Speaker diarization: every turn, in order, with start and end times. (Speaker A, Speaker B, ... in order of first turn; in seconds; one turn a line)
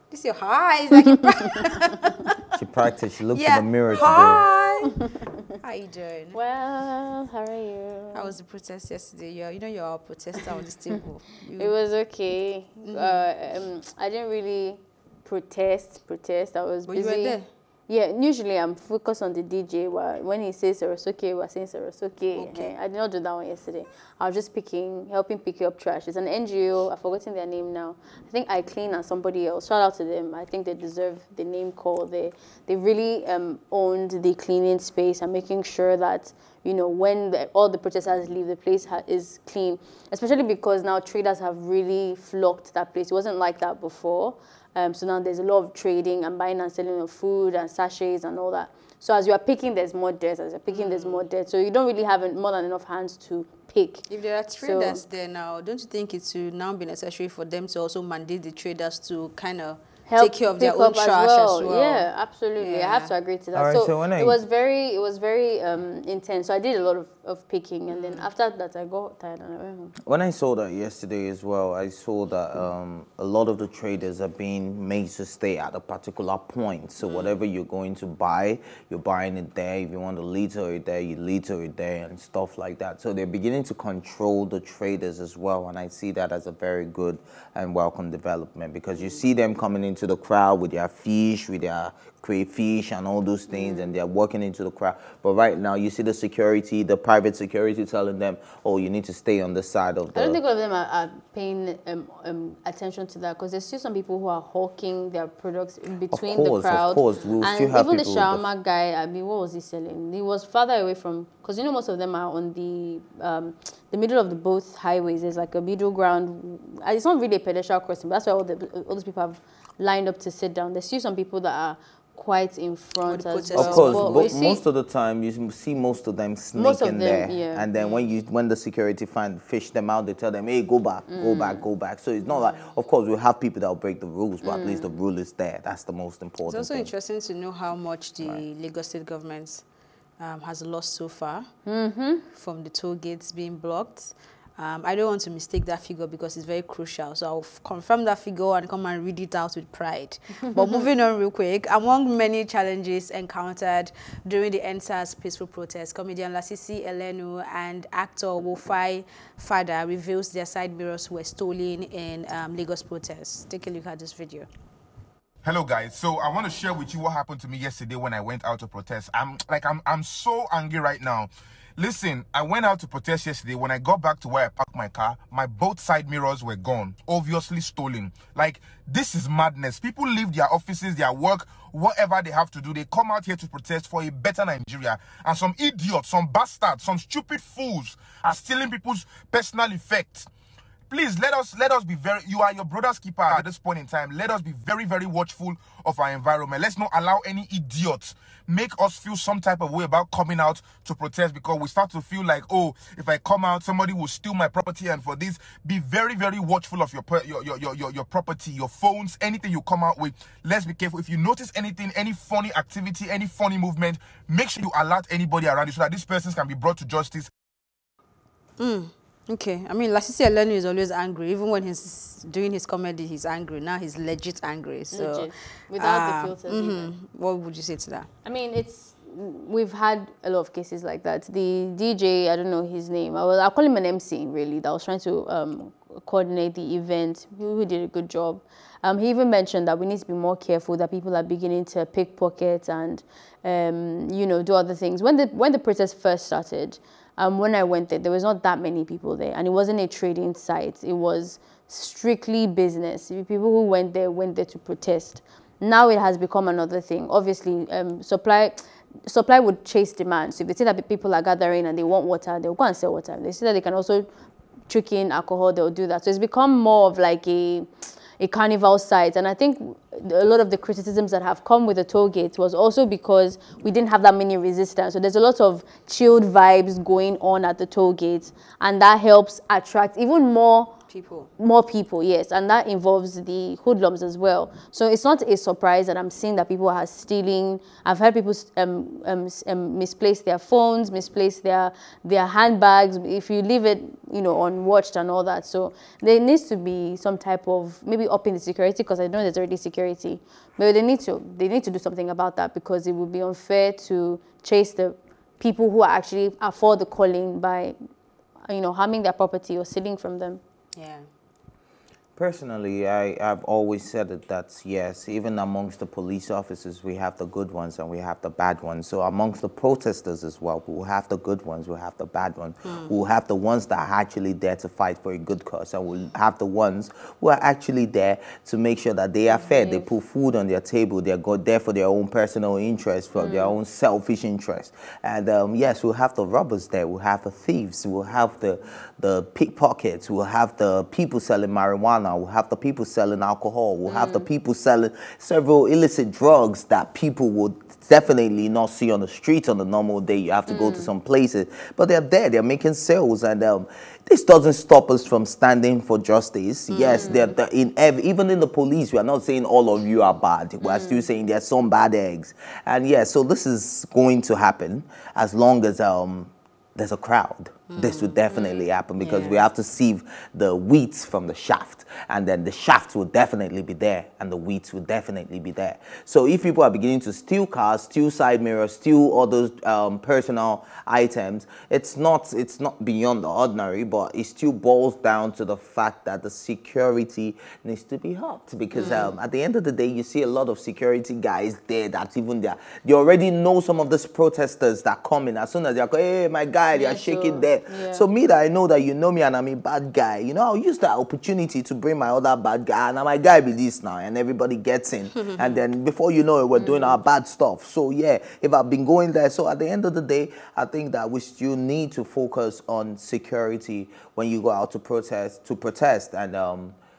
Speaker A: 0.1-2.4
Speaker B: 2.5-4.4
Speaker A: 3.3-5.0
Speaker A: 5.6-6.4
Speaker C: 6.3-8.3
Speaker A: 8.1-11.7
Speaker C: 11.6-54.0
Speaker A: 12.8-13.2
Speaker A: 16.9-17.5
Speaker A: 22.3-22.7
Speaker A: 50.7-51.2
Speaker A: 54.1-62.1
Speaker C: 54.6-55.0
Speaker C: 60.1-69.9
Speaker A: 62.6-63.1
Speaker B: 63.5-64.4
Speaker A: 67.9-68.2
Speaker B: 70.0-100.4
Speaker A: 77.0-77.4
Speaker C: 93.5-94.0
Speaker C: 100.1-124.6
Speaker B: 106.1-108.4
Speaker A: 123.0-124.3
Speaker B: 123.5-136.9
Speaker C: 126.5-127.7
Speaker A: 127.8-128.1
Speaker C: 131.1-131.6
Speaker A: 132.2-132.7
Speaker C: 134.4-135.0
Speaker A: 136.4-139.6
Speaker A: 140.2-141.5
Speaker C: 141.7-142.2
Speaker A: 142.3-164.5
Speaker D: 165.4-190.3
Speaker D: 190.9-217.3
Speaker A: 218.6-228.1
Speaker C: 224.9-226.9
Speaker C: 228.2-264.1
Speaker C: 264.7-280.7
Speaker A: 280.9-281.3
Speaker C: 281.4-307.8
Speaker C: 308.4-310.4
Speaker A: 310.7-311.0
Speaker B: 312.1-416.8
Speaker C: 329.3-329.9
Speaker C: 333.1-333.6
Speaker C: 343.9-344.3
Speaker C: 350.5-350.9
Speaker A: 356.7-357.2
Speaker C: 360.6-361.1
Speaker A: 367.7-368.2
Speaker C: 368.3-368.7
Speaker A: 369.0-369.5
Speaker A: 388.8-389.1
Speaker C: 396.7-398.1
Speaker A: 405.3-405.6
Speaker C: 406.5-407.0